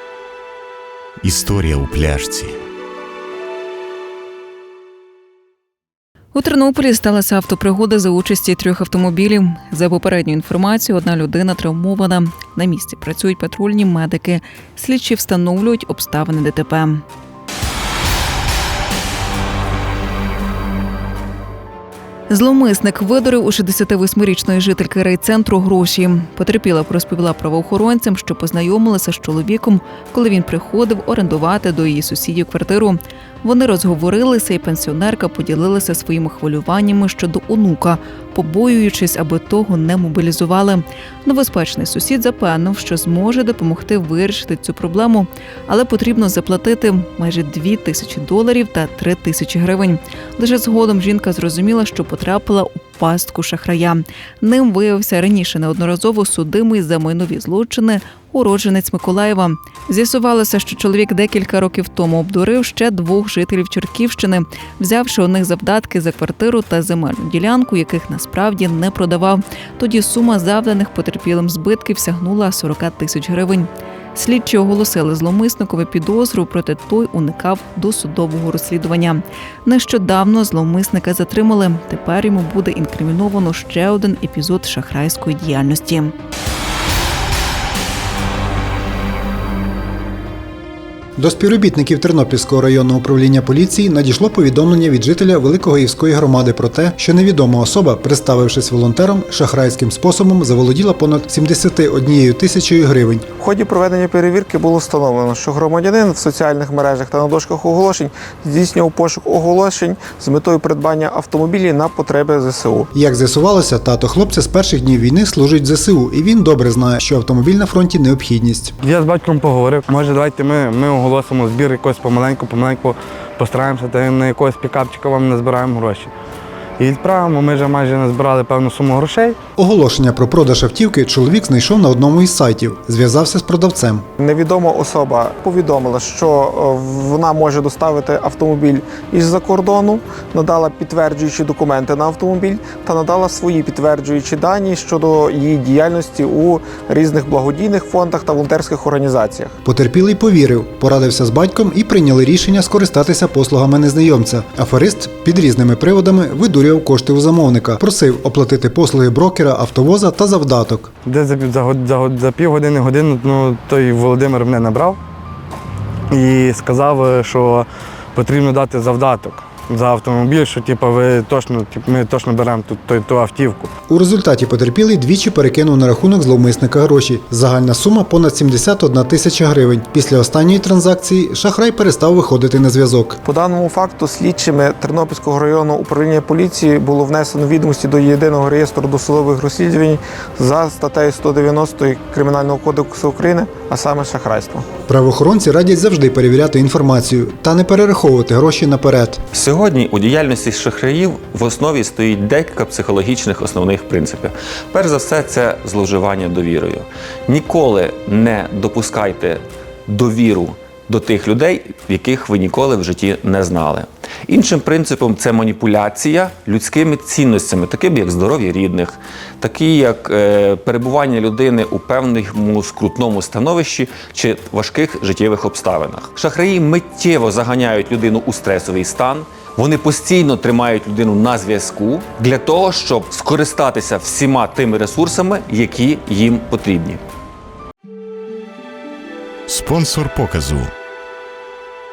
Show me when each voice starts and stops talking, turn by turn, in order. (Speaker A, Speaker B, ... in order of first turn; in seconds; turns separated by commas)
Speaker A: 1.2-2.6, Speaker B: 6.3-17.0, Speaker B: 22.3-86.1, Speaker C: 91.2-103.2, Speaker D: 103.4-112.9, Speaker C: 112.9-118.7, Speaker E: 118.8-126.1, Speaker E: 126.8-129.3, Speaker C: 129.6-134.0, Speaker D: 134.2-149.6, Speaker C: 149.6-160.9, Speaker E: 161.1-165.0, Speaker E: 166.1-173.7, Speaker C: 173.9-183.2, Speaker D: 183.2-194.7, Speaker C: 194.9-199.2, Speaker F: 199.3-237.0, Speaker A: 239.5-240.7